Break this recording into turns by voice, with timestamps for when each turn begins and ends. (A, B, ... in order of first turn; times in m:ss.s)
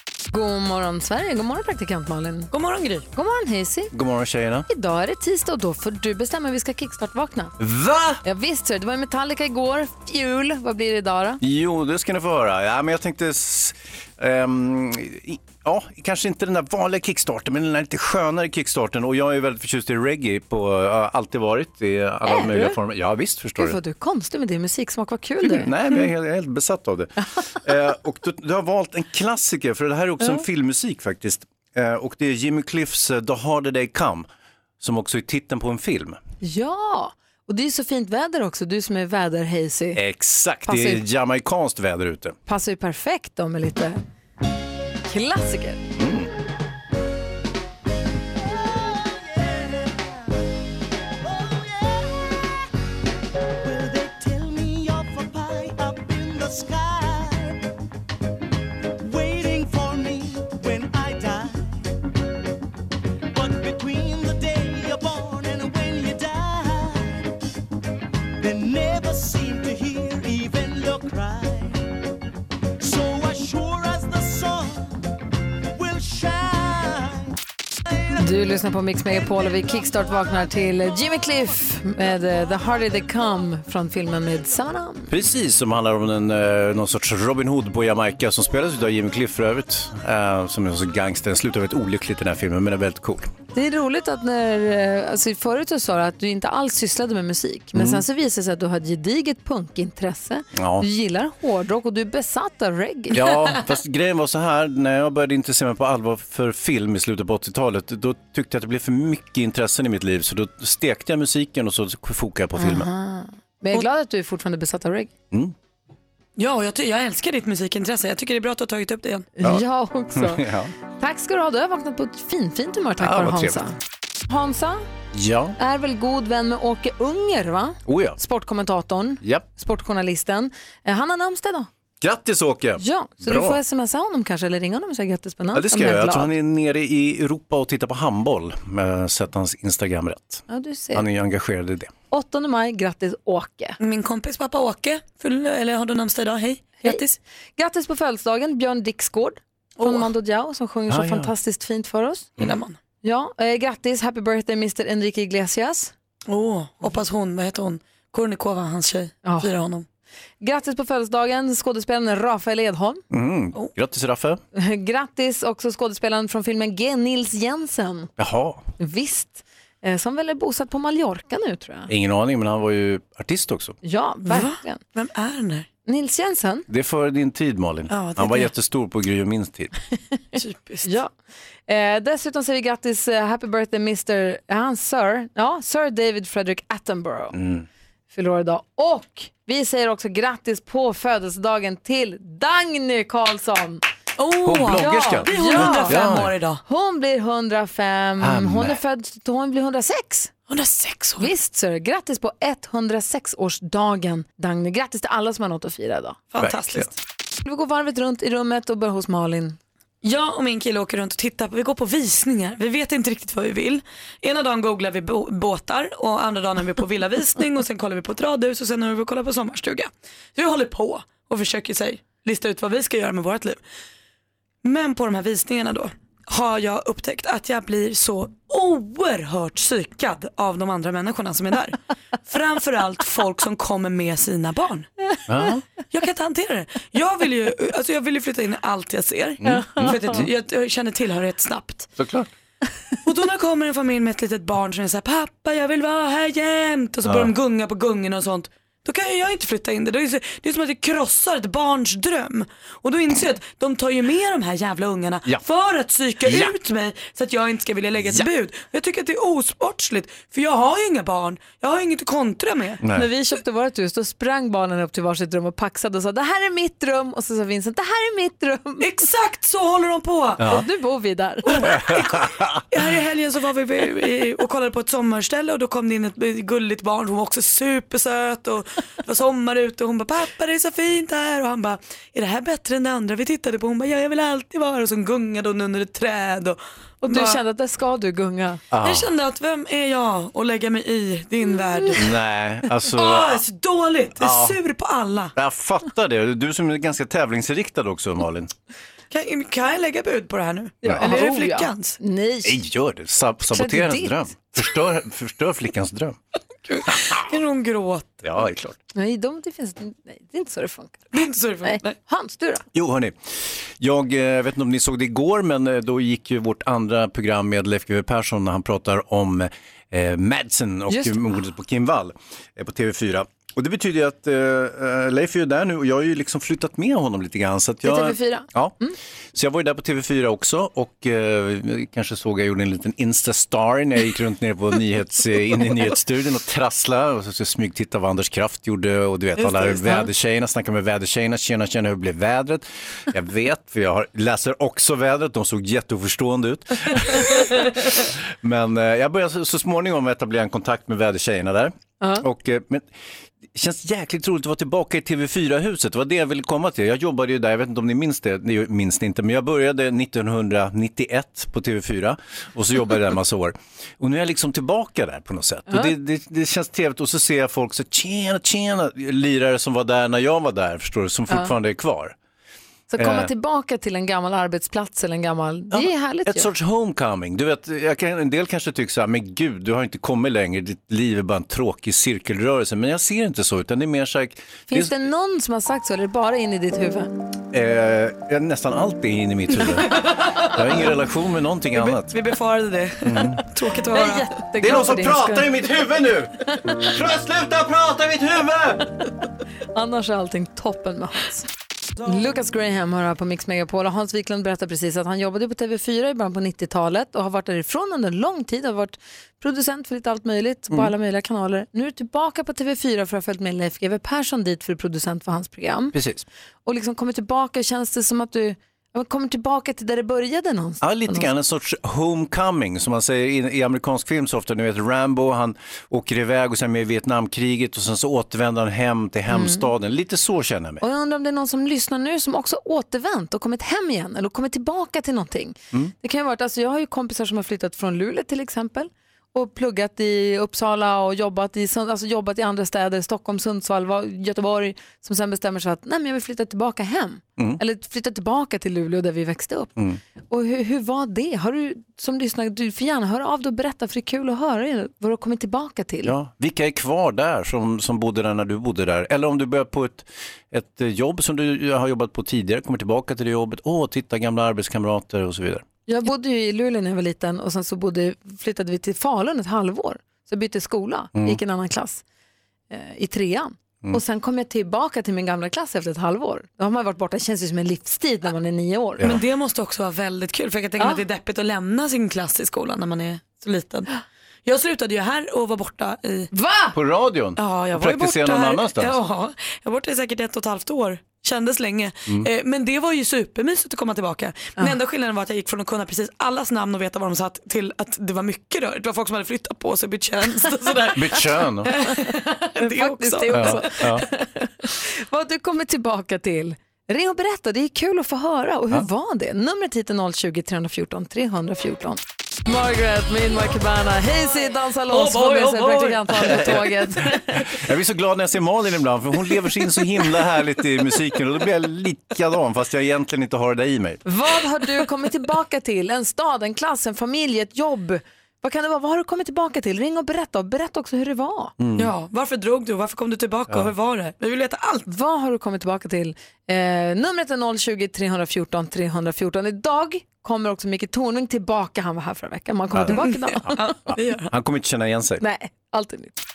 0:00.3-0:02.5 A
0:02.5-0:03.0 B
0:03.1-0:03.9 A
0:03.9-0:04.7 C
0:04.7-0:07.5 A
0:07.6-0:08.2 C
0:08.2-0:11.4 A
0:11.4-0:23.8 C
0:22.2-0:22.8 A
0:23.6-0:25.7 A
0:25.4-0:34.3 C
0:34.8-0:36.2 C
0:36.4-0:40.0 A
0:39.9-0:42.4 C
0:40.6-0:41.0 A
0:42.5-0:44.0 A
0:45.1-0:45.8 A
0:46.0-0:46.3 C
0:48.4-0:50.2 D
0:51.2-0:52.6 D
0:53.6-0:57.6 D
0:59.0-1:01.9 D
1:03.3-1:07.3 D
1:08.4-1:11.9 D
1:12.8-1:15.0 D
1:15.7-1:17.3 D
1:18.2-1:25.1 A
1:25.1-1:33.3 C
1:33.5-1:43.2 A
1:37.7-1:38.0 C
1:40.5-1:40.8 C
1:43.1-1:52.9 C
1:52.6-1:55.1 A
1:56.4-1:59.3 B
1:59.4-2:00.4 A
2:00.1-2:00.7 C
2:01.0-2:03.7 A
2:03.0-2:03.6 C
2:04.3-2:04.8 A
2:05.1-2:05.6 C
2:05.6-2:11.7 A
2:07.8-2:08.2 C
2:12.0-2:13.6 C
2:12.8-2:16.3 A
2:15.5-2:21.9 C
2:20.5-2:21.0 A
2:22.1-2:23.8 A
2:23.8-2:27.2 B
2:27.6-2:32.3 A
2:29.8-2:30.1 B
2:30.9-2:31.3 C
2:32.4-2:32.8 B
2:33.0-2:35.9 A
2:36.3-2:39.8 B
2:39.2-2:39.5 A
2:40.4-2:43.0 A
2:43.1-2:44.4 C
2:44.6-2:48.1 A
2:48.2-2:48.7 C
2:48.8-2:51.9 A
2:51.9-2:53.8 C
2:53.8-2:54.8 A
2:54.2-2:55.7 B
2:55.8-2:56.6 A
2:56.7-2:59.7 C
2:57.9-2:58.5 B
3:00.4-3:00.9 B
3:00.8-3:01.1 A
3:01.7-3:07.3 A
3:07.3-3:07.6 C
3:08.1-3:13.8 A
3:14.2-3:16.6 B
3:14.4-3:16.3 C
3:14.7-3:16.0 A
3:16.6-3:20.3 A
3:18.2-3:18.8 C
3:20.5-3:21.3 B
3:21.2-3:26.2 A
3:26.3-3:26.9 B
3:26.4-3:26.9 C
3:27.4-3:29.6 A
3:30.0-3:43.6 B
3:44.6-3:54.9 B
3:55.3-3:55.6 C
3:55.9-4:01.9 B
3:59.4-4:00.2 C
3:59.7-4:00.1 A
4:02.0-4:02.3 C
4:03.0-4:22.8 B
4:07.0-4:07.3 C
4:22.8-4:23.1 C
4:22.9-4:28.8 A
4:28.8-4:30.4 B
4:30.4-4:30.6 C
4:30.5-4:31.8 A
4:31.5-4:31.7 B
4:31.7-4:32.5 C
4:32.7-4:47.4 B
4:47.0-4:48.6 A
4:48.7-4:49.1 C
4:48.8-4:52.1 B
4:52.0-4:53.4 C
4:52.9-4:55.3 B
4:54.2-4:54.6 C
4:55.3-4:58.5 C
4:59.1-5:02.0 B
5:00.8-5:02.6 A
5:00.8-5:01.1 C
5:02.4-5:06.2 C
5:03.5-5:04.2 A
5:06.7-5:08.2 B
5:08.2-5:08.8 C
5:08.9-5:11.1 A
5:11.1-5:11.9 B
5:11.6-5:12.6 A
5:12.7-5:13.2 C
5:13.8-5:28.7 C
5:20.9-5:21.2 A
5:27.8-5:28.9 A
5:29.3-5:47.2 C
5:39.4-5:40.0 B
5:48.4-5:52.9 C
5:53.5-6:12.2 C
6:12.9-6:16.5 A
6:13.0-6:13.3 C
6:15.7-6:24.9 C
6:24.7-6:27.1 A
6:27.5-6:32.1 C
6:29.9-6:30.5 B
6:31.7-6:34.3 B
6:33.0-6:33.4 C
6:33.9-6:35.5 A
6:34.6-6:38.8 C
6:39.7-6:41.4 A
6:42.0-6:55.9 A
6:55.9-6:56.3 C
6:56.6-7:01.3 A
7:00.8-7:10.8 C
7:09.3-7:09.7 A
7:10.8-7:29.7 A
7:30.3-7:36.1 A
7:36.0-7:45.6 C
7:45.9-7:52.0 A
7:52.7-7:59.0 A
7:59.0-8:03.9 B
8:04.4-8:06.3 B
8:06.3-8:06.7 A
8:06.7-8:09.0 C
8:07.4-8:24.0 B
8:20.9-8:21.7 C
8:22.6-8:24.5 A
8:23.3-8:24.0 C
8:25.1-8:37.2 A
8:34.9-8:36.7 B
8:37.6-8:44.0 C
8:44.0-8:51.5 A
8:51.6-8:51.9 C
8:51.8-8:54.8 B
8:54.9-9:03.6 A
9:02.9-9:04.3 B
9:04.3-9:05.2 C
9:05.2-9:06.2 A